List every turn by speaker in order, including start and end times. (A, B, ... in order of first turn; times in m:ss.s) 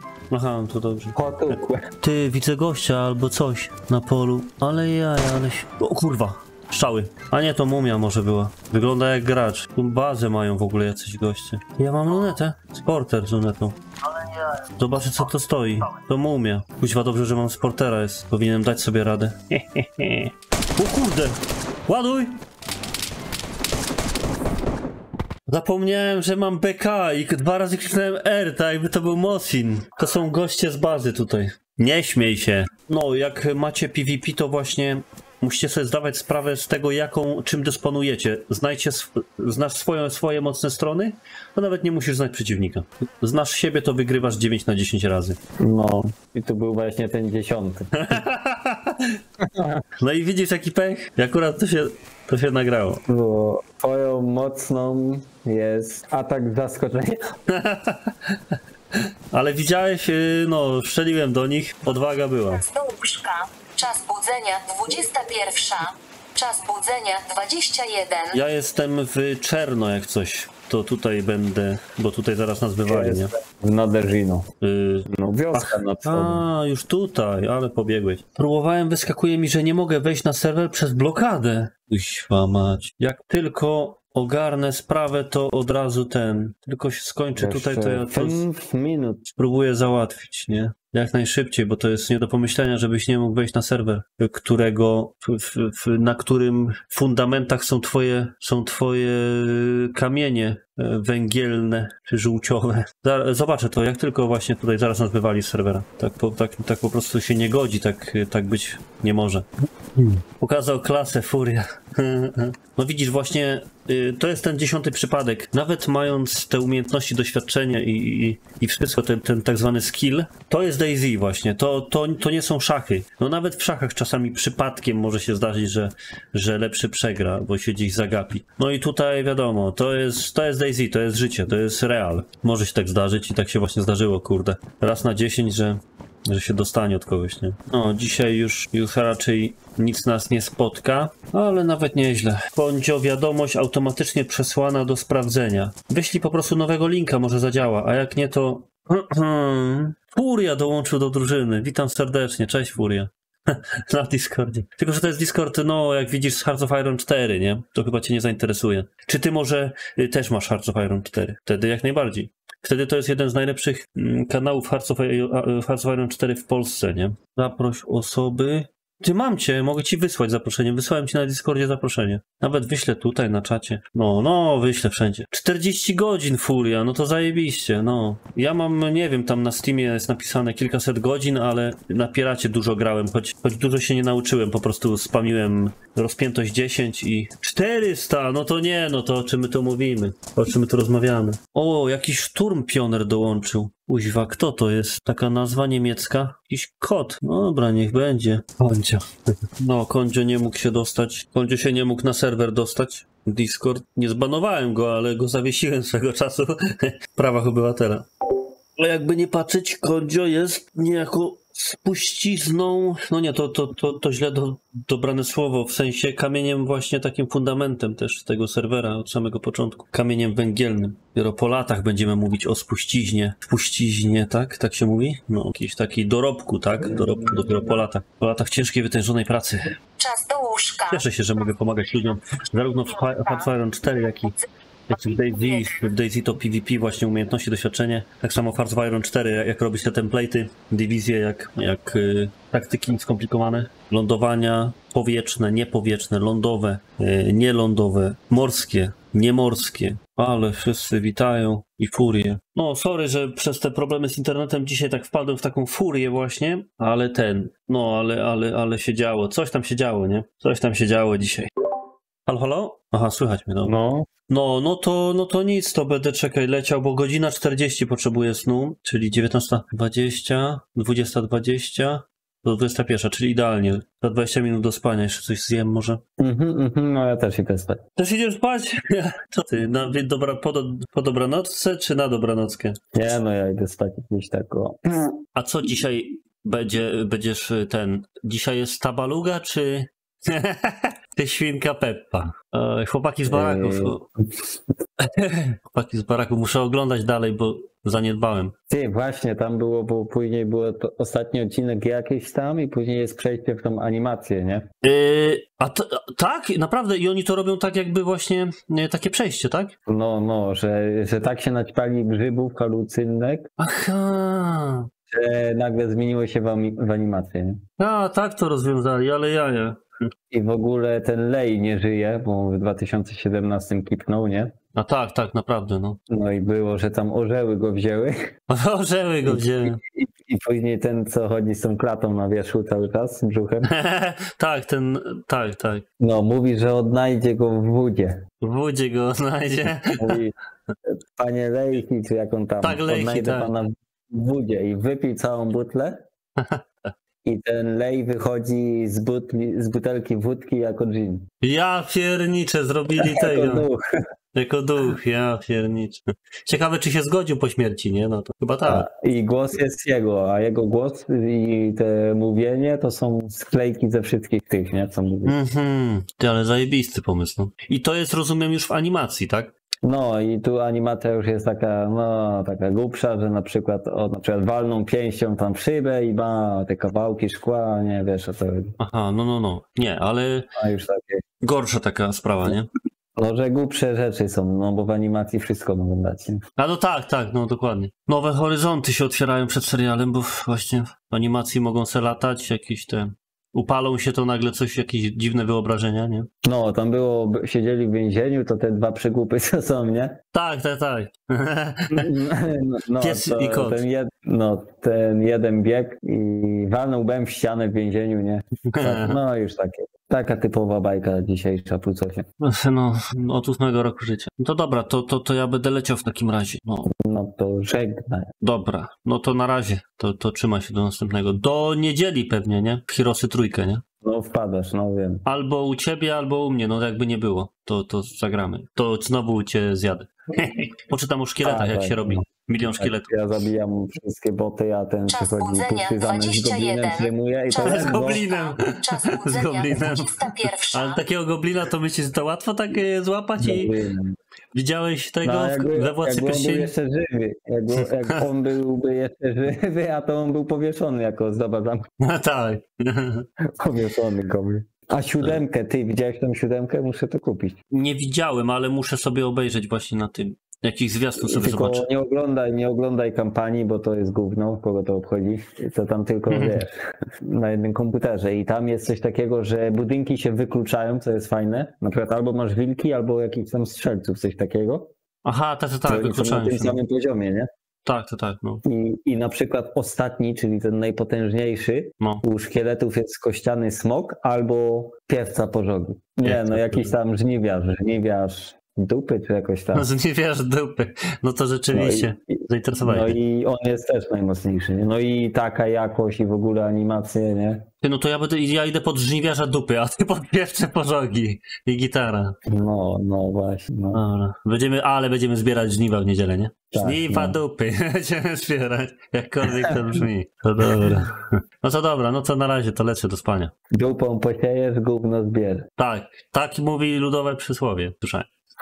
0:00.3-0:22.4 A
0:01.2-0:01.9 B
0:25.5-0:45.4 A
0:45.6-0:48.2 B
0:47.9-0:49.2 A
0:49.4-0:49.8 B
0:50.0-0:53.0 A
0:53.1-0:57.2 B
0:57.5-1:02.6 A
1:02.5-1:08.4 C
1:08.3-1:13.3 A
1:12.9-1:14.5 B
1:14.6-1:28.4 A
1:15.1-1:16.4 B
1:27.4-1:29.2 B
1:29.2-3:28.1 A
3:28.8-3:49.8 A
3:50.0-3:51.0 C
3:50.9-3:54.3 A
3:53.0-3:53.5 C
3:54.9-4:21.5 A
3:55.1-3:55.7 C
4:22.3-4:23.7 A
4:23.6-4:24.1 B
4:24.3-4:36.0 A
4:36.2-4:37.8 B
4:38.0-4:42.8 A
4:43.0-4:45.2 B
4:45.4-4:54.1 A
4:53.3-4:54.0 B
4:55.0-4:58.5 A
4:58.7-5:04.7 B
5:04.8-5:09.8 A
5:09.9-5:13.5 B
5:13.6-5:14.9 A
5:15.1-5:17.6 B
5:17.8-5:19.8 A
5:20.3-5:24.5 B
5:24.8-5:26.0 A
5:26.1-5:28.2 B
5:28.5-5:29.8 A
5:29.3-5:33.7 B
5:33.6-5:35.8 A
5:36.0-5:38.2 B
5:38.4-5:40.2 A
5:40.0-5:46.0 B
5:42.6-5:43.5 A
5:46.4-5:46.9 A
5:47.2-5:51.3 B
5:51.4-5:53.7 A
5:53.0-5:53.8 B
5:54.3-5:58.9 A
5:58.6-6:05.4 B
6:05.2-6:09.5 A
6:09.8-6:18.8 B
6:18.8-6:20.5 A
6:20.6-6:21.2 B
6:21.4-6:22.7 A
6:23.2-6:26.4 B
6:26.6-6:36.3 A
6:36.4-6:40.2 B
6:40.3-6:42.1 A
6:41.9-6:52.3 B
6:43.0-6:43.8 A
6:48.7-6:49.2 A
6:52.4-6:56.9 A
6:56.9-6:58.3 B
6:58.4-7:03.8 A
7:04.0-7:05.2 B
7:05.3-7:13.2 A
7:11.4-7:18.2 B
7:15.1-7:21.0 C
7:17.6-7:23.7 A
7:23.4-7:24.2 B
7:24.5-7:26.7 A
7:25.2-7:31.9 B
7:27.8-7:28.2 A
7:32.0-7:33.3 A
7:33.6-7:37.6 B
7:37.7-7:41.9 A
7:41.2-7:54.9 B
7:46.3-7:46.6 A
7:55.2-7:56.8 A
7:55.9-7:57.5 B
7:57.8-7:58.6 A
7:58.6-8:09.9 B
8:06.2-8:07.0 A
8:09.7-8:13.2 A
8:11.7-8:17.7 B
8:17.8-8:22.4 A
8:22.5-8:24.0 B
8:23.9-8:33.5 A
8:26.7-8:27.4 B
8:29.5-8:30.0 B
8:30.7-8:31.0 B
8:33.7-8:35.7 B
8:35.8-8:38.3 A